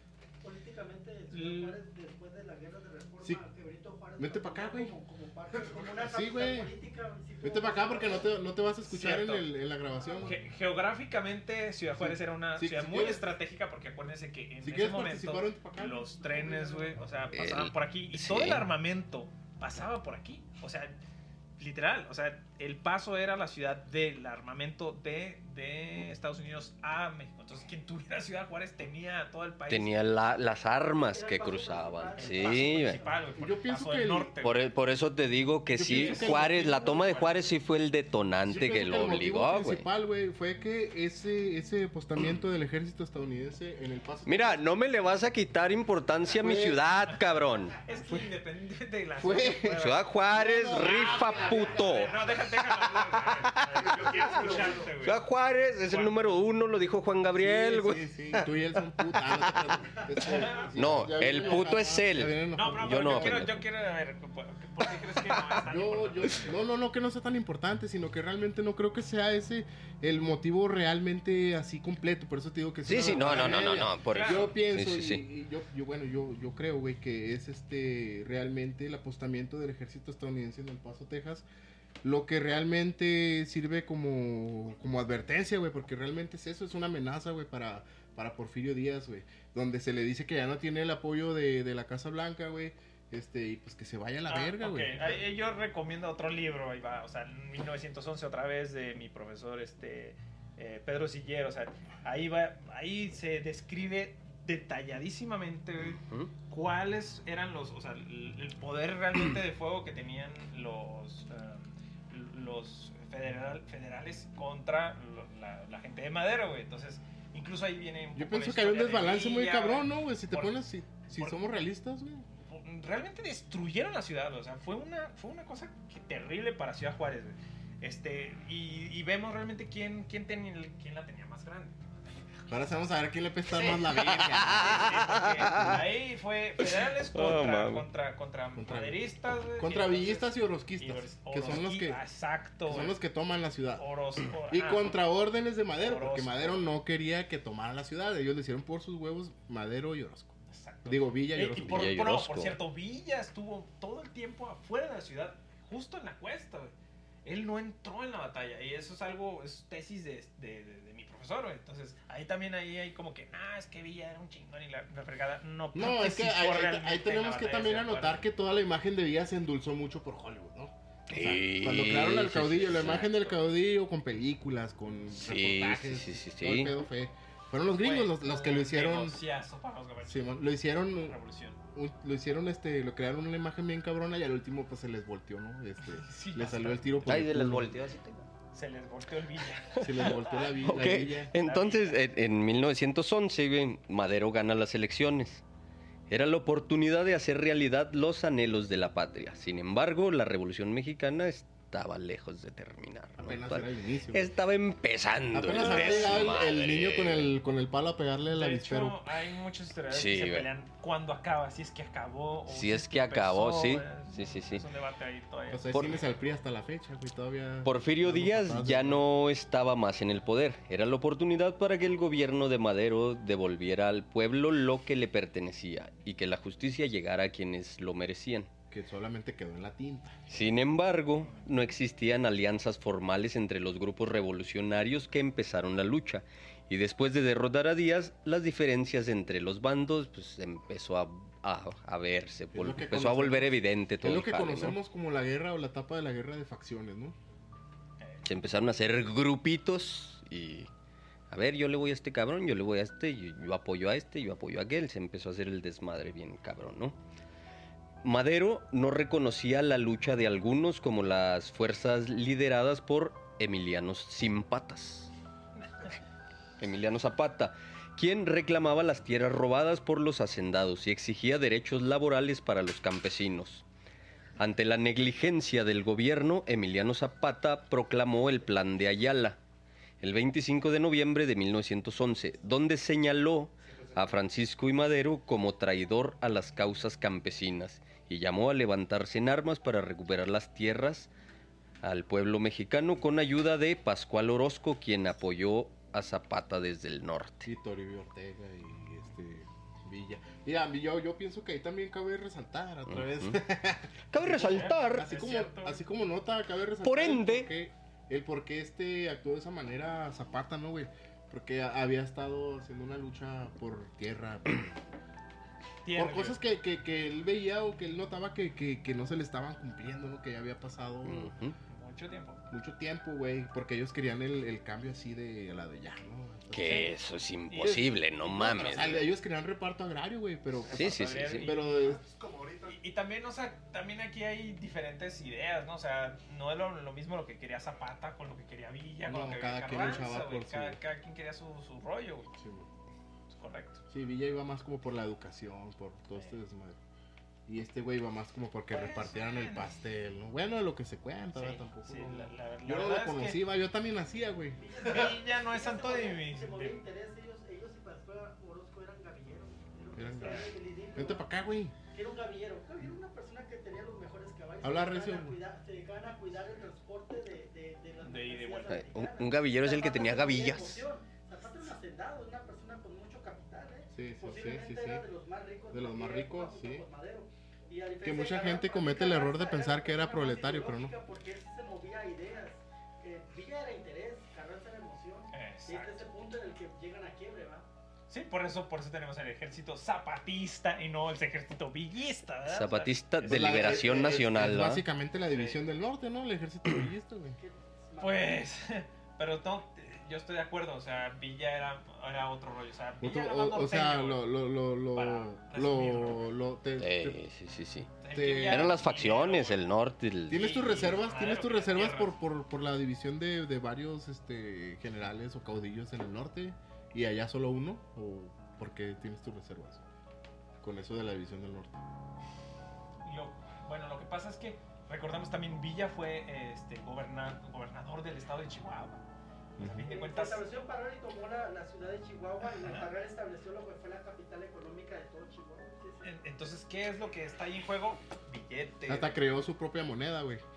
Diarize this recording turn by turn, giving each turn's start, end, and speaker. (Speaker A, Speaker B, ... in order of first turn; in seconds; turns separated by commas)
Speaker A: 0.4-8.4, Speaker B: 1.3-1.8, Speaker C: 4.2-4.9, Speaker D: 5.7-5.9, Speaker C: 6.0-6.7, Speaker C: 7.4-10.4, Speaker B: 8.8-9.5, Speaker A: 9.9-10.4, Speaker B: 10.2-20.9, Speaker C: 12.0-13.2, Speaker C: 14.6-16.2, Speaker A: 16.2-16.9, Speaker E: 17.3-18.6, Speaker B: 21.6-29.9, Speaker E: 29.7-33.0, Speaker A: 31.1-33.3, Speaker B: 32.2-34.6, Speaker C: 33.4-34.3, Speaker E: 34.4-39.9, Speaker C: 35.7-36.8, Speaker B: 35.8-37.4, Speaker C: 38.5-44.6, Speaker E: 44.2-47.8, Speaker C: 46.4-46.8, Speaker B: 47.8-50.1, Speaker C: 48.0-48.2, Speaker C: 49.2-51.8, Speaker E: 49.8-52.2, Speaker B: 50.8-55.2, Speaker D: 51.0-52.1, Speaker D: 53.7-54.9, Speaker E: 55.0-58.1, Speaker B: 55.8-56.3, Speaker C: 57.3-63.5, Speaker B: 60.2-61.6, Speaker E: 60.7-63.6, Speaker B: 62.5-66.6, Speaker C: 65.6-81.5, Speaker E: 72.8-75.2, Speaker B: 73.3-74.5, Speaker C: 82.0-95.2, Speaker B: 94.3-120.5, Speaker E: 105.8-106.3, Speaker C: 118.1-122.2, Speaker B: 122.4-131.8, Speaker C: 132.5-135.8, Speaker E: 133.6-135.8, Speaker B: 134.2-142.9, Speaker E: 136.6-137.8, Speaker C: 138.6-139.0, Speaker C: 139.6-142.0, Speaker C: 142.7-143.8, Speaker B: 143.8-144.9, Speaker C: 144.5-151.9, Speaker B: 145.8-146.7, Speaker B: 150.5-156.7, Speaker E: 151.6-152.6, Speaker B: 157.2-168.2, Speaker C: 165.7-179.2, Speaker E: 171.1-173.3, Speaker E: 175.1-176.7, Speaker B: 177.8-180.4, Speaker C: 180.1-181.2, Speaker B: 180.9-181.6, Speaker C: 181.7-187.7, Speaker B: 185.9-186.9, Speaker E: 187.1-188.2, Speaker B: 188.5-192.0, Speaker C: 189.8-191.3, Speaker E: 189.8-195.4, Speaker E: 196.1-207.3, Speaker C: 203.2-204.3, Speaker C: 205.3-209.0, Speaker B: 205.5-206.3, Speaker B: 208.3-216.0, Speaker E: 209.9-210.5, Speaker E: 212.5-214.6, Speaker C: 215.5-219.0, Speaker E: 215.7-216.0, Speaker E: 217.6-228.5, Speaker C: 228.7-230.3, Speaker E: 230.3-244.8, Speaker C: 242.5-247.1, Speaker B: 248.0-248.2, Speaker E: 248.2-250.7, Speaker E: 251.3-257.0, Speaker E: 258.0-265.1, Speaker E: 266.6-273.6, Speaker E: 274.4-279.4, Speaker E: 280.0-291.1, Speaker E: 291.8-297.5, Speaker C: 297.4-314.7, Speaker E: 302.9-303.4, Speaker E: 304.1-305.1, Speaker B: 304.2-305.8, Speaker E: 306.8-307.5, Speaker B: 315.8-316.4, Speaker C: 315.9-321.3, Speaker E: 321.0-321.6, Speaker B: 321.7-322.4, Speaker C: 322.5-326.9, Speaker E: 326.5-329.0, Speaker B: 327.5-327.9, Speaker C: 327.6-332.0, Speaker B: 328.5-328.9, Speaker B: 330.7-331.9, Speaker E: 330.7-331.5, Speaker D: 331.7-332.8, Speaker B: 332.7-342.3, Speaker C: 339.1-340.8, Speaker C: 342.4-342.6, Speaker B: 343.3-343.8, Speaker C: 343.9-346.8, Speaker C: 347.5-354.7, Speaker B: 348.7-349.7, Speaker B: 351.3-353.4, Speaker A: 354.6-361.3, Speaker B: 354.8-356.8, Speaker C: 359.9-361.7, Speaker B: 360.2-360.5, Speaker A: 361.9-387.6, Speaker C: 364.6-365.4, Speaker B: 368.0-368.8, Speaker E: 368.7-370.8, Speaker C: 373.9-375.0, Speaker C: 375.7-376.8, Speaker C: 378.0-380.9, Speaker B: 385.3-386.0, Speaker B: 388.1-393.8, Speaker E: 392.5-394.8, Speaker C: 393.2-397.4, Speaker B: 395.3-395.6, Speaker A: 397.4-398.4, Speaker B: 398.0-404.3, Speaker C: 403.0-407.2, Speaker B: 404.9-406.4, Speaker E: 406.8-410.5, Speaker B: 408.0-409.6, Speaker C: 408.1-408.8, Speaker C: 410.3-419.8, Speaker B: 410.3-412.1, Speaker C: 420.6-421.8, Speaker B: 423.0-429.0, Speaker C: 429.6-429.9, Speaker B: 429.6-430.4, Speaker A: 429.8-436.1, Speaker B: 432.4-432.9, Speaker B: 436.0-439.2, Speaker C: 438.9-440.4